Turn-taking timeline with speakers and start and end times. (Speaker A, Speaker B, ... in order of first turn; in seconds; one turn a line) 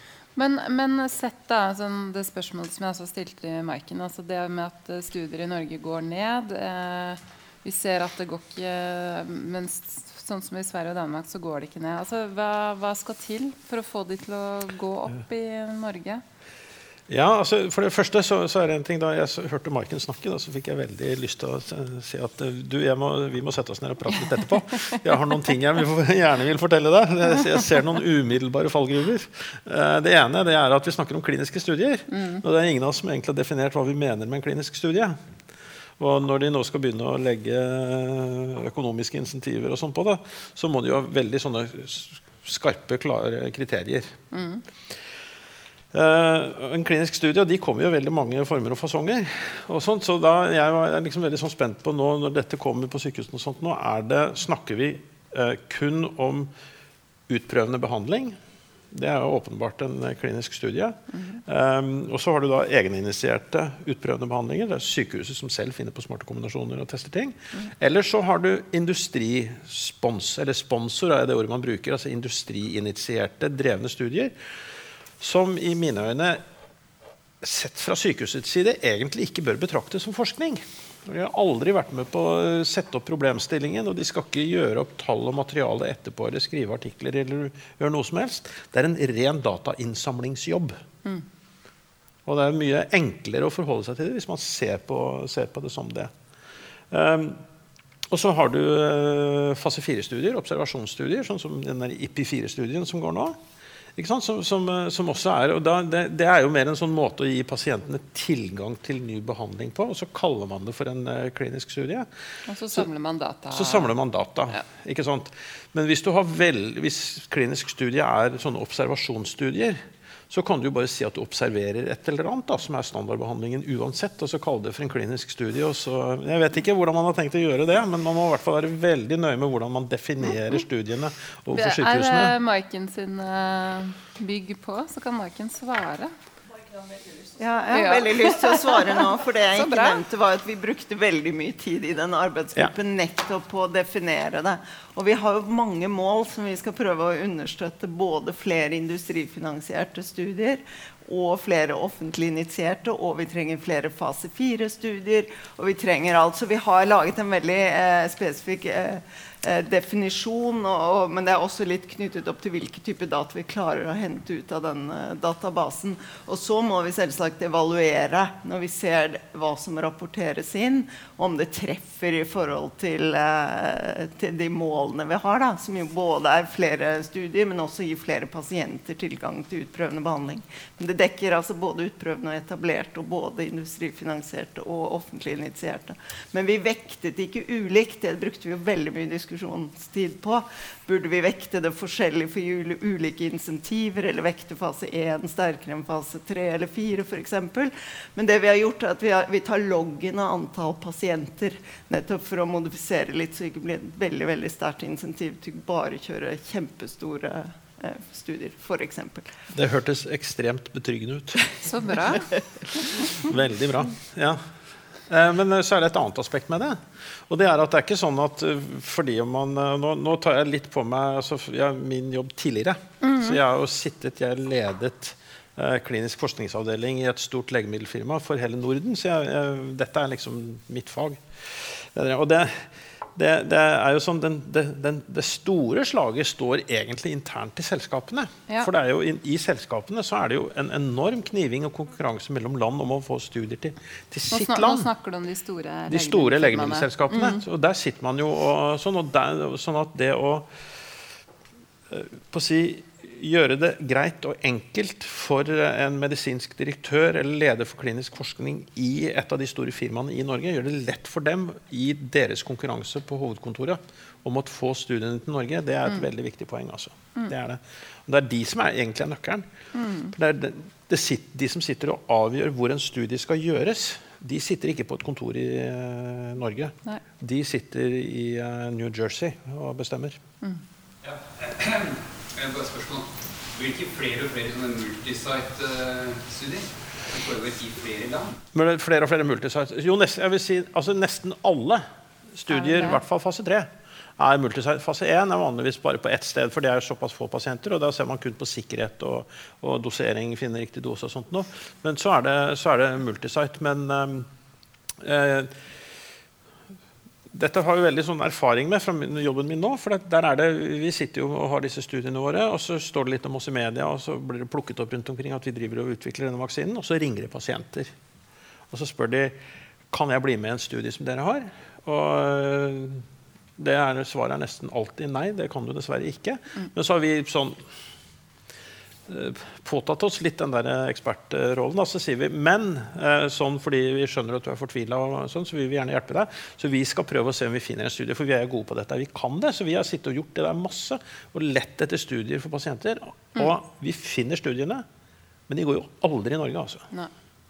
Speaker A: 0.4-16.2
Speaker B: 17.1-35.2
Speaker A: 24.4-25.0
Speaker A: 32.1-32.4
Speaker B: 36.0-44.1
Speaker A: 44.3-44.6
Speaker B: 45.9-56.5
Speaker B: 57.3-58.4
Speaker B: 58.9-74.3
Speaker A: 61.1-61.4
Speaker B: 75.2-76.4
Speaker B: 77.4-90.8
Speaker B: 92.3-96.1
Speaker B: 96.9-97.4
Speaker B: 98.1-103.4
Speaker B: 104.0-112.1
Speaker A: 112.5-113.9
Speaker B: 113.5-132.3
Speaker A: 131.5-136.1
Speaker C: 137.4-209.3
Speaker A: 137.7-140.0
Speaker B: 209.5-211.6
Speaker A: 211.6-212.3
Speaker B: 212.9-214.4
Speaker B: 215.1-244.9
Speaker A: 223.0-223.4
Speaker A: 244.3-247.4
Speaker B: 245.9-250.5
Speaker B: 251.9-269.5
Speaker A: 269.7-270.1
Speaker B: 270.1-280.2
Speaker D: 281.0-288.3
Speaker B: 288.5-291.8
Speaker B: 292.4-304.3
Speaker A: 292.5-293.0
Speaker B: 305.0-305.5
Speaker B: 307.3-317.9
Speaker B: 318.7-319.4
Speaker B: 319.9-323.1
Speaker B: 323.6-327.6
Speaker B: 329.1-344.9
Speaker B: 345.5-346.9